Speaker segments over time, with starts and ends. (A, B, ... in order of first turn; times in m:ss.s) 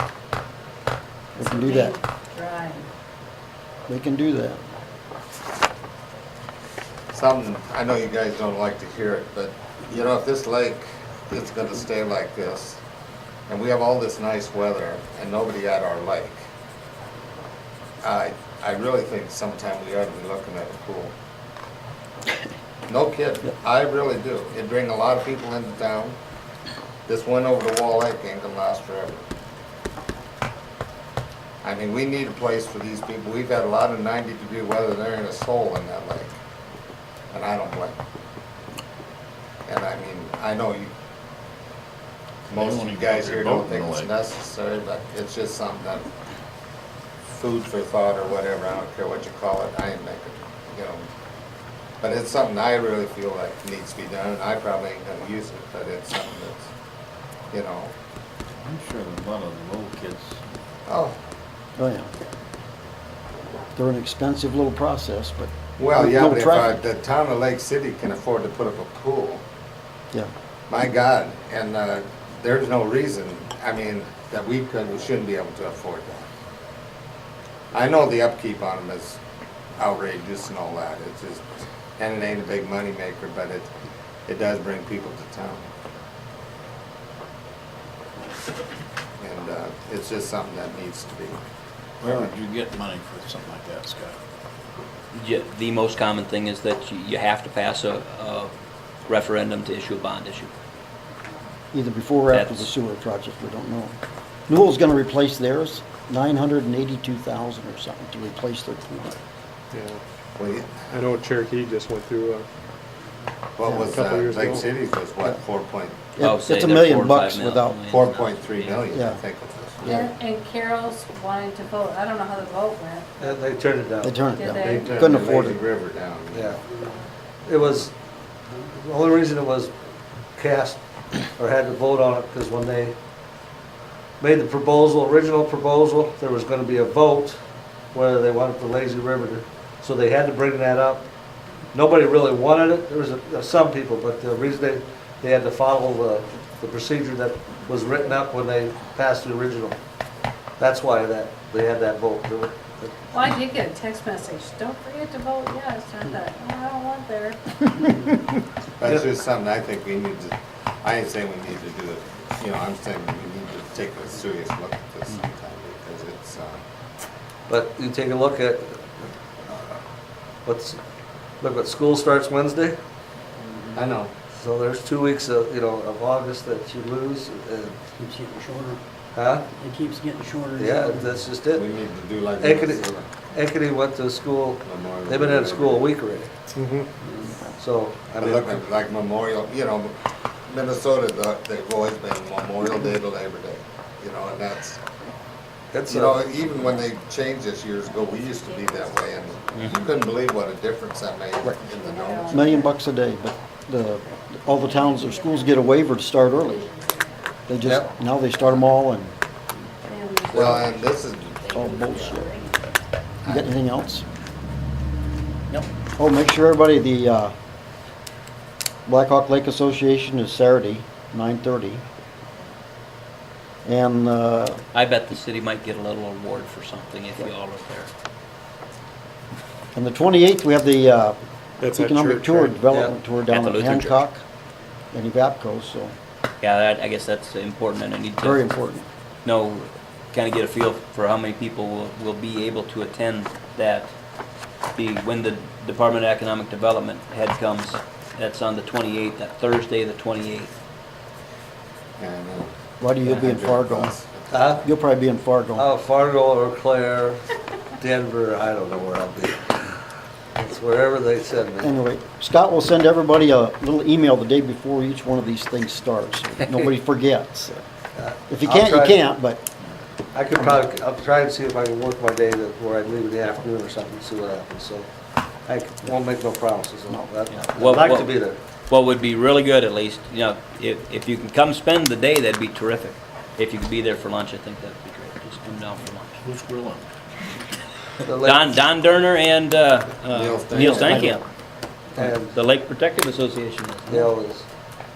0:01.4-0:02.0 A
0:01.4-0:02.9 B
0:03.9-0:04.6 A
0:07.1-0:12.8 C
0:13.5-0:16.4 C
0:18.0-0:21.1 C
0:22.9-0:26.2 C
0:27.1-0:29.2 C
0:31.6-0:36.4 C
0:37.3-0:38.0 C
0:39.7-0:40.9 C
0:42.5-0:46.1 C
0:42.5-0:44.1 D
0:47.3-0:51.1 C
0:52.0-0:56.7 C
0:57.5-0:57.9 C
0:58.6-1:00.4 D
1:00.9-1:01.2 C
1:01.8-1:02.1 A
1:03.8-1:06.8 A
1:05.8-1:09.4 C
1:10.7-1:16.3 C
1:17.7-1:19.2 C
1:19.8-1:21.4 C
1:22.0-1:23.7 C
1:24.3-1:25.7 C
1:29.2-1:31.4 C
1:32.0-1:34.2 D
1:35.1-1:38.5 E
1:39.1-1:40.5 E
1:41.7-1:44.0 A
1:42.3-1:42.7 E
1:44.5-1:49.2 A
1:49.7-1:50.0 F
1:50.4-1:50.9 C
1:50.9-1:52.5 F
1:53.6-1:56.0 C
1:53.8-1:54.7 F
1:56.2-1:57.8 A
1:56.2-1:58.9 E
1:57.9-1:59.9 C
1:58.9-1:59.2 A
1:59.8-2:00.1 A
1:59.8-2:03.4 B
2:03.2-2:04.2 G
2:04.0-2:05.6 A
2:04.4-2:04.9 B
2:04.4-2:06.6 C
2:06.3-2:06.6 G
2:07.5-2:07.9 G
2:08.7-2:09.7 G
2:10.4-2:10.8 G
2:11.4-2:13.0 G
2:14.2-2:17.4 G
2:17.9-2:21.0 G
2:21.7-2:29.8 G
2:30.6-2:32.9 G
2:33.1-2:37.6 B
2:38.8-2:46.6 C
2:47.5-2:49.8 G
2:50.4-2:50.8 G
2:51.4-2:52.8 G
2:53.7-2:54.1 C
2:54.4-2:57.8 G
2:58.0-2:58.8 H
2:59.1-2:59.5 G
2:59.6-3:01.1 H
3:00.5-3:01.7 G
3:01.5-3:03.1 C
3:02.4-3:06.3 G
3:04.6-3:05.9 C
3:06.6-3:06.9 F
3:07.6-3:08.6 G
3:08.2-3:09.9 C
3:10.5-3:14.8 C
3:15.7-3:16.7 G
3:15.9-3:22.4 C
3:17.8-3:19.8 B
3:19.6-3:19.8 E
3:21.6-3:22.8 B
3:22.3-3:26.7 A
3:24.6-3:25.8 B
3:26.4-3:27.2 B
3:27.5-3:29.1 A
3:27.6-3:27.9 G
3:29.8-3:32.5 B
3:30.3-3:32.2 C
3:31.5-3:32.4 A
3:33.2-3:34.0 A
3:35.5-3:37.3 A
3:38.9-3:41.8 A
3:43.6-3:44.6 A
3:44.7-3:47.9 E
3:49.7-3:51.2 A
3:51.6-3:52.6 F
3:51.7-3:54.2 A
3:52.7-3:52.9 G
3:53.3-3:54.0 E
3:54.9-3:55.9 A
3:56.4-3:58.5 E
3:58.2-3:58.9 A
3:59.2-4:03.9 E
4:04.8-4:10.5 E
4:12.0-4:14.6 C
4:12.8-4:14.0 A
4:14.3-4:14.7 G
4:14.6-4:15.7 A
4:15.6-4:19.8 G
4:20.4-4:21.7 G
4:21.6-4:27.6 A
4:28.0-4:29.0 G
4:28.3-4:29.4 A
4:30.1-4:34.9 G
4:35.5-4:38.4 G
4:37.3-4:46.2 E
4:46.2-4:46.9 D
4:48.0-4:48.6 G
4:48.2-4:51.2 E
4:50.1-4:51.1 C
4:50.5-4:51.2 A
4:52.0-4:52.3 G
4:52.0-4:54.1 E
4:53.9-4:54.5 G